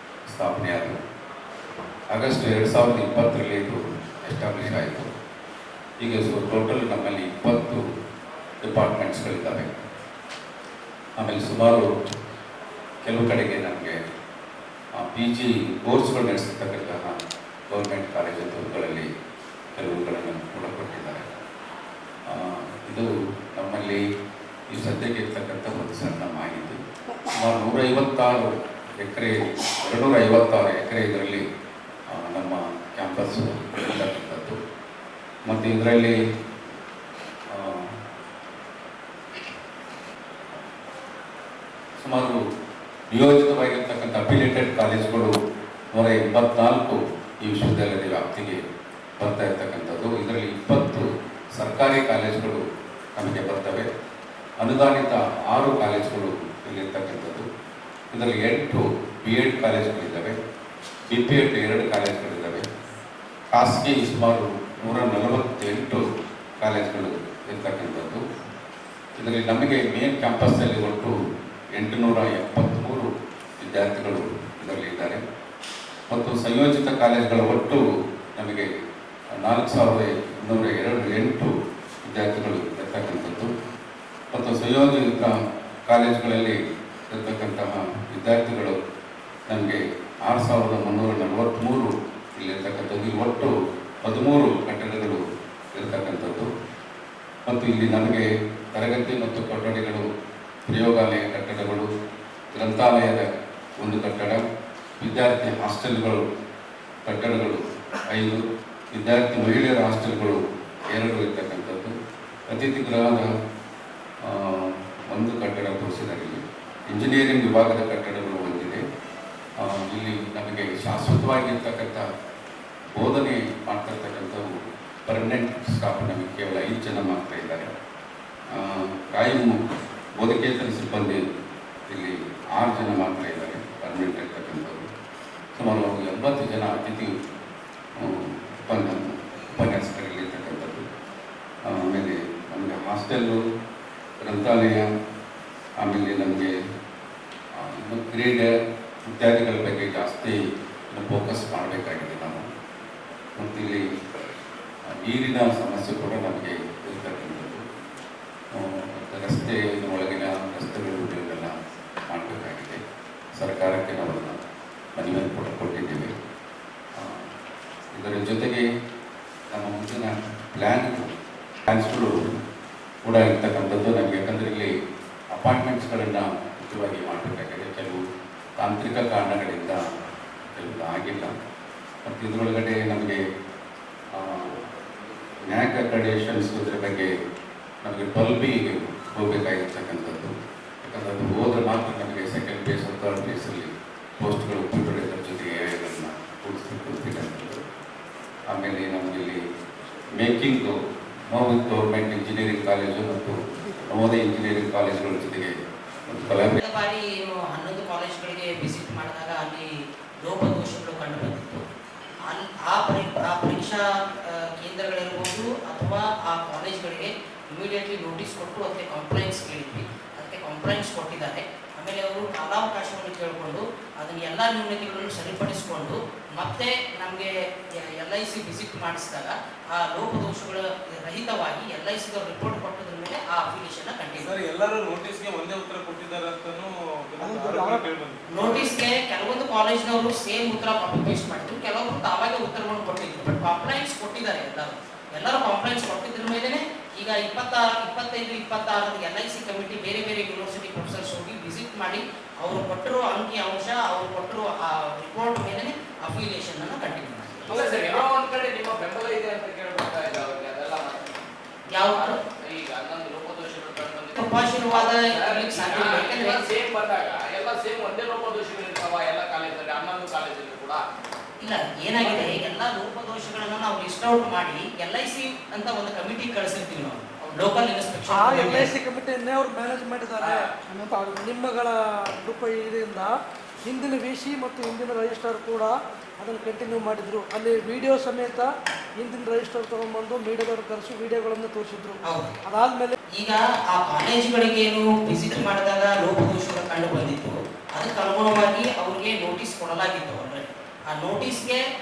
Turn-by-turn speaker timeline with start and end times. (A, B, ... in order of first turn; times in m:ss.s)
0:00.3-0:01.0 A
0:02.1-0:05.1 A
0:06.0-0:07.8 A
0:08.6-0:09.8 A
0:11.2-0:11.9 A
0:13.0-0:14.0 A
0:15.0-0:17.2 A
0:17.7-0:19.1 A
0:19.8-0:21.3 A
0:22.3-0:24.0 A
0:24.7-0:26.8 A
0:27.4-0:31.4 A
0:32.1-0:34.6 A
0:35.5-0:36.2 A
0:37.5-0:37.9 A
0:42.0-0:42.4 A
0:43.1-0:45.3 A
0:45.9-0:48.6 A
0:49.2-0:51.1 A
0:51.6-0:52.6 A
0:53.2-0:53.9 A
0:54.6-0:57.4 A
0:58.1-1:00.4 A
1:01.1-1:02.6 A
1:03.5-1:06.0 A
1:06.6-1:08.2 A
1:09.2-1:11.1 A
1:11.7-1:13.1 A
1:13.6-1:15.2 A
1:16.1-1:17.8 A
1:18.4-1:18.7 A
1:19.3-1:21.5 A
1:22.0-1:23.5 A
1:24.3-1:25.3 A
1:25.9-1:26.6 A
1:27.1-1:28.8 A
1:29.5-1:33.5 A
1:34.0-1:35.2 A
1:35.8-1:36.5 A
1:37.5-1:40.0 A
1:40.7-1:41.9 A
1:42.5-1:43.3 A
1:43.8-1:44.4 A
1:45.0-1:46.2 A
1:47.0-1:51.9 A
1:52.5-1:53.3 A
1:54.3-1:58.8 A
1:59.6-2:02.0 A
2:03.0-2:04.5 A
2:05.1-2:07.7 A
2:08.5-2:09.6 A
2:10.2-2:11.2 A
2:11.9-2:14.9 A
2:15.6-2:17.1 A
2:18.0-2:20.8 A
2:21.7-2:23.4 A
2:24.2-2:24.8 A
2:25.8-2:26.5 A
2:27.6-2:28.5 A
2:29.1-2:30.4 A
2:30.9-2:32.5 A
2:33.4-2:33.8 A
2:35.0-2:37.6 A
2:38.6-2:41.5 A
2:42.1-2:42.8 A
2:43.4-2:44.4 A
2:45.0-2:46.1 A
2:47.0-2:47.2 A
2:47.9-2:48.6 A
2:49.5-2:51.1 A
2:51.7-2:52.1 A
2:53.0-2:54.7 A
2:55.3-2:58.0 A
2:58.6-2:59.8 A
3:00.6-3:01.3 A
3:02.0-3:03.2 A
3:04.2-3:04.6 A
3:05.5-3:07.1 A
3:07.8-3:10.3 A
3:10.8-3:17.6 A
3:18.5-3:19.4 A
3:20.2-3:20.8 A
3:21.3-3:25.5 A
3:26.1-3:26.6 A
3:26.6-3:29.7 B
3:30.2-3:31.6 B
3:32.3-3:33.8 B
3:34.4-3:47.3 B
3:48.0-3:54.4 B
3:54.2-3:58.8 C
3:57.2-3:57.9 D
3:58.3-4:17.5 B
4:17.5-4:18.1 D
4:17.6-4:21.1 E
4:21.7-4:22.2 B
4:22.0-4:24.2 E
4:24.2-4:26.5 B
4:24.7-4:30.8 E
4:31.4-4:38.7 B
4:38.1-4:43.1 D
4:43.7-4:53.0 D
4:52.0-4:52.3 B
4:53.2-5:01.6 B